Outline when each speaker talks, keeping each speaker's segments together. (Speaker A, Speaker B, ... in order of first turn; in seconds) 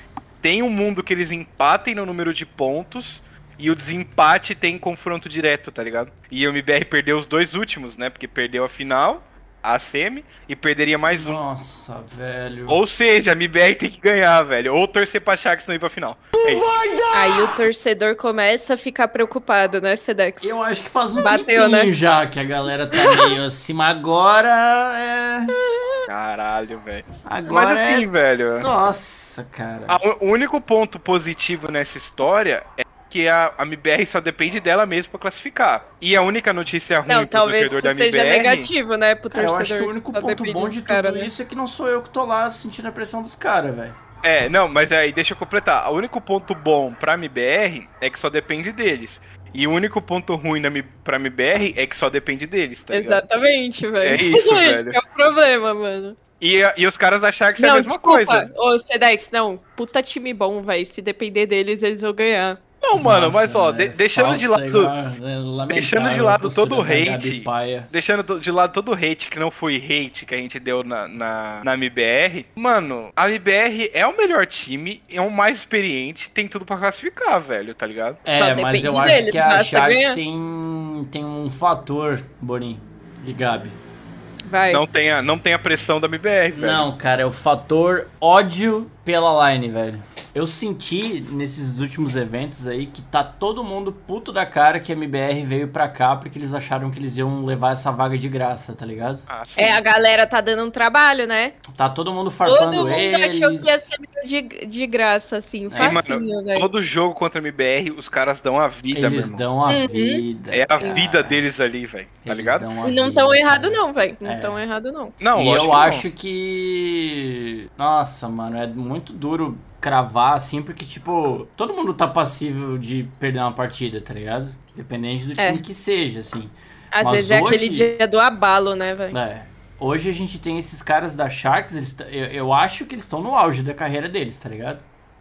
Speaker A: 0.4-11.4, 12.7-16.7, 26.1-28.7, 29.9-38.7, 44.2-53.2, 54.0-55.0, 56.4-58.5, 62.8-64.9, 65.7-78.2, 84.7-86.9, 99.3-99.8, 105.8-109.4, 110.5-112.7, 115.2-116.0
Speaker B: 11.1-12.8, 16.3-17.6, 20.4-25.6, 27.2-28.1, 28.6-30.0, 39.3-44.0, 62.9-67.9, 78.2-83.8, 86.5-99.3, 101.7-103.9, 105.7-106.0, 108.9-111.4, 112.2-114.6, 115.3-127.9, 129.1-134.8
Speaker C: 17.1-20.6, 21.2-21.9, 22.9-23.4, 37.1-41.3, 52.9-56.2, 57.6-62.6, 78.3-80.2, 84.5-84.8, 99.6-101.6, 102.4-106.7, 109.7-110.2, 112.8-115.2, 126.9-129.2